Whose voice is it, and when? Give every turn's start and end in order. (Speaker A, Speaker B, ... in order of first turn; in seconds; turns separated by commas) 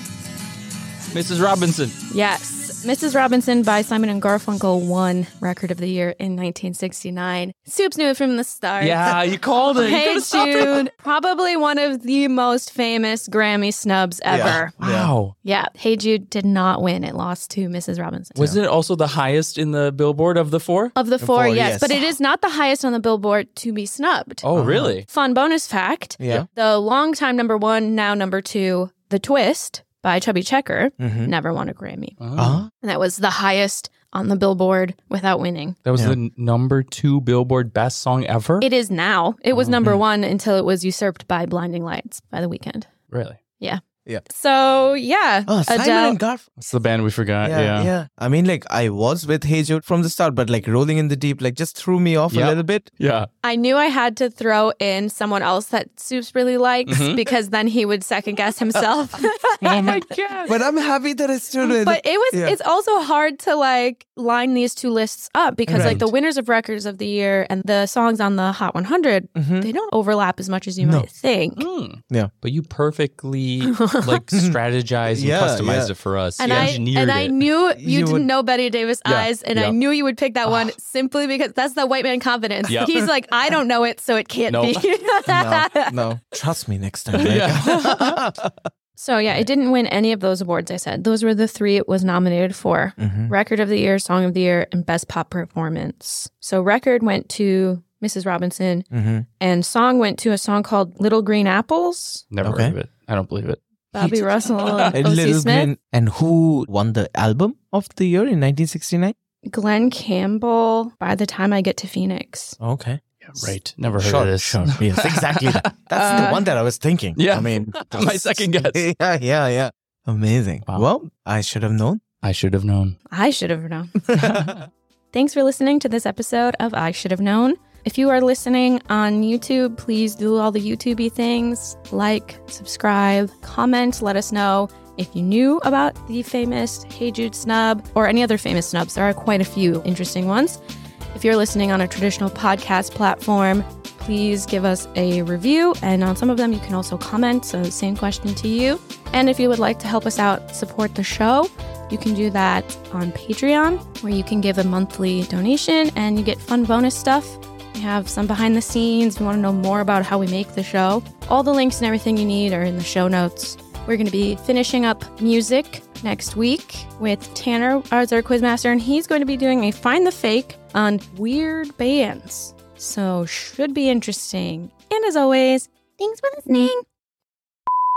Speaker A: 1.1-1.9, Speaker B: 2.1-9.0, Speaker A: 8.8-10.9, Speaker B: 9.8-14.7, Speaker C: 14.3-15.1, Speaker A: 14.8-15.3, Speaker B: 15.4-18.5, Speaker A: 18.4-20.9, Speaker B: 20.9-24.5, Speaker C: 21.2-22.1, Speaker A: 24.4-25.1, Speaker C: 24.6-24.9, Speaker B: 25.1-32.2, Speaker C: 26.2-26.5, Speaker C: 31.0-31.3, Speaker A: 32.2-32.6, Speaker C: 32.4-32.7, Speaker B: 32.8-35.8, Speaker A: 35.8-38.7, Speaker B: 38.6-42.9, Speaker A: 39.5-39.8, Speaker A: 43.1-43.4, Speaker B: 43.6-46.2, Speaker C: 45.5-46.5, Speaker A: 46.6-47.9, Speaker C: 47.4-52.9, Speaker A: 52.3-53.3, Speaker B: 53.4-60.1, Speaker A: 56.9-57.3, Speaker C: 59.6-62.6, Speaker A: 59.8-60.5, Speaker B: 61.6-71.7, Speaker C: 65.7-66.0, Speaker A: 65.7-66.1, Speaker C: 69.3-69.7, Speaker C: 70.8-71.1, Speaker A: 71.6-77.5, Speaker B: 73.6-74.1, Speaker C: 74.3-74.6, Speaker C: 75.1-75.9, Speaker B: 76.4-86.1, Speaker C: 76.5-76.8, Speaker C: 77.7-78.3, Speaker A: 79.0-79.8, Speaker A: 80.5-80.7, Speaker A: 82.6-83.0, Speaker A: 84.5-84.9, Speaker C: 85.3-88.6, Speaker A: 87.1-88.2, Speaker B: 89.0-98.9, Speaker C: 93.0-93.3, Speaker C: 98.9-99.3, Speaker B: 99.4-102.3, Speaker A: 102.3-105.0, Speaker C: 102.4-102.8, Speaker B: 103.9-105.7, Speaker C: 104.9-109.2, Speaker B: 109.5-112.6, Speaker C: 112.6-122.0, Speaker A: 113.2-116.5, Speaker B: 116.1-116.4, Speaker A: 117.2-118.8, Speaker A: 122.2-123.0, Speaker B: 123.1-124.0, Speaker C: 124.1-124.5, Speaker A: 124.1-124.7, Speaker B: 125.1-140.6, Speaker B: 141.1-176.8